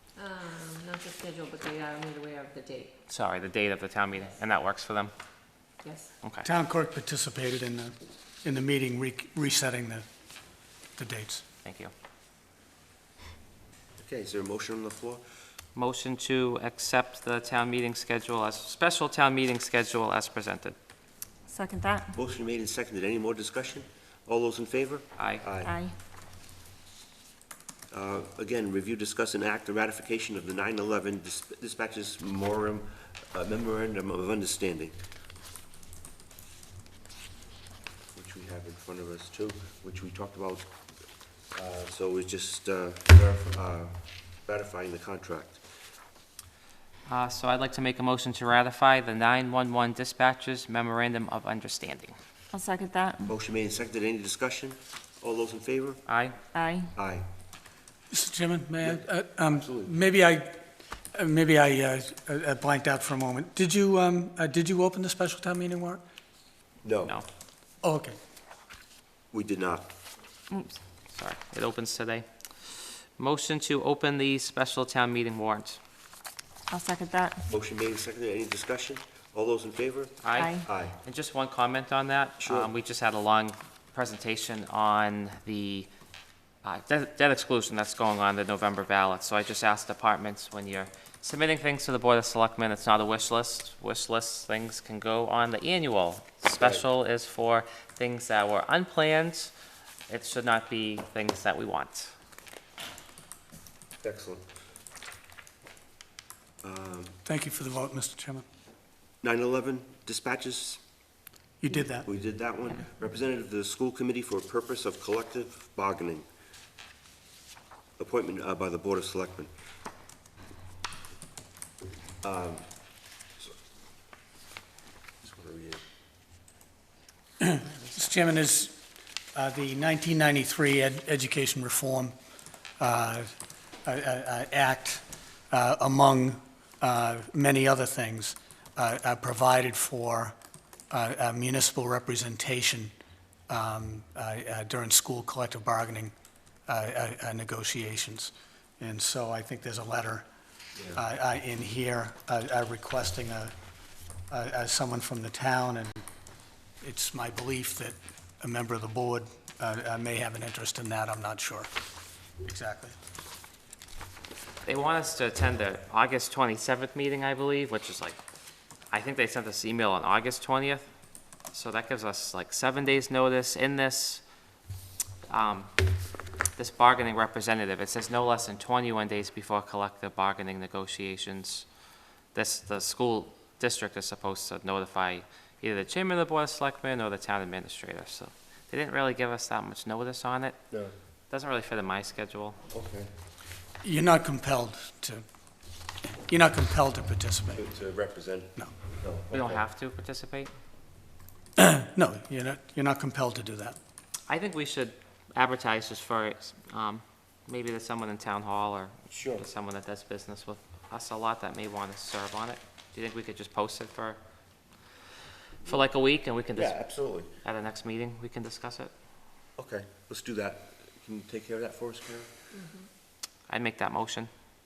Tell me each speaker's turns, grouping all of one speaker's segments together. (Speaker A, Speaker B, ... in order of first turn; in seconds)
Speaker A: 0.2-2.9, 5.8-6.1
Speaker B: 3.1-5.1, 6.2-6.5, 11.6-11.9, 15.7-20.8, 25.2-25.4, 47.1-52.1, 56.1-56.4, 71.1-72.3, 73.2-75.8, 80.2-85.9, 86.6-99.5, 100.1-102.1, 127.6-128.1, 164.6-168.2, 168.9-170.9, 171.5-174.2, 175.3-175.7, 176.6-181.7, 182.3-190.6, 191.3-192.6, 199.3-200.5, 204.3-214.2, 215.6-216.8, 217.4-218.9, 223.5-224.3
Speaker C: 6.4-10.1, 10.9-11.4, 58.1-60.6, 61.1-66.0, 67.8-68.2, 107.2-108.4, 111.6-112.1, 127.4-128.8, 129.3-132.1, 132.8-133.3, 133.8-140.3, 140.9-142.9, 143.5-146.1, 146.7-150.2, 150.9-153.5, 154.3-156.0, 156.8-161.7, 162.4-162.9, 193.8-195.2, 196.1-197.6, 201.6-203.8
Speaker D: 14.0-15.2, 22.1-25.7, 27.9-34.9, 38.1-40.7, 41.5-45.6, 53.2-56.0, 56.9-57.2, 58.8-60.0, 66.8-67.2, 69.3-69.9, 77.5-81.0, 82.4-82.7, 96.6-96.8, 104.0-104.4, 106.6-107.2, 109.2-110.8, 112.0-116.2, 118.0-119.5, 122.2-122.7, 125.2-125.8, 192.7-193.1, 197.5-199.6, 209.1-209.4, 216.5-217.3, 219.6-222.3
Speaker E: 21.5-22.2, 25.6-25.9, 52.5-53.3, 56.5-56.9, 70.5-70.8, 76.7-77.5, 80.3-80.7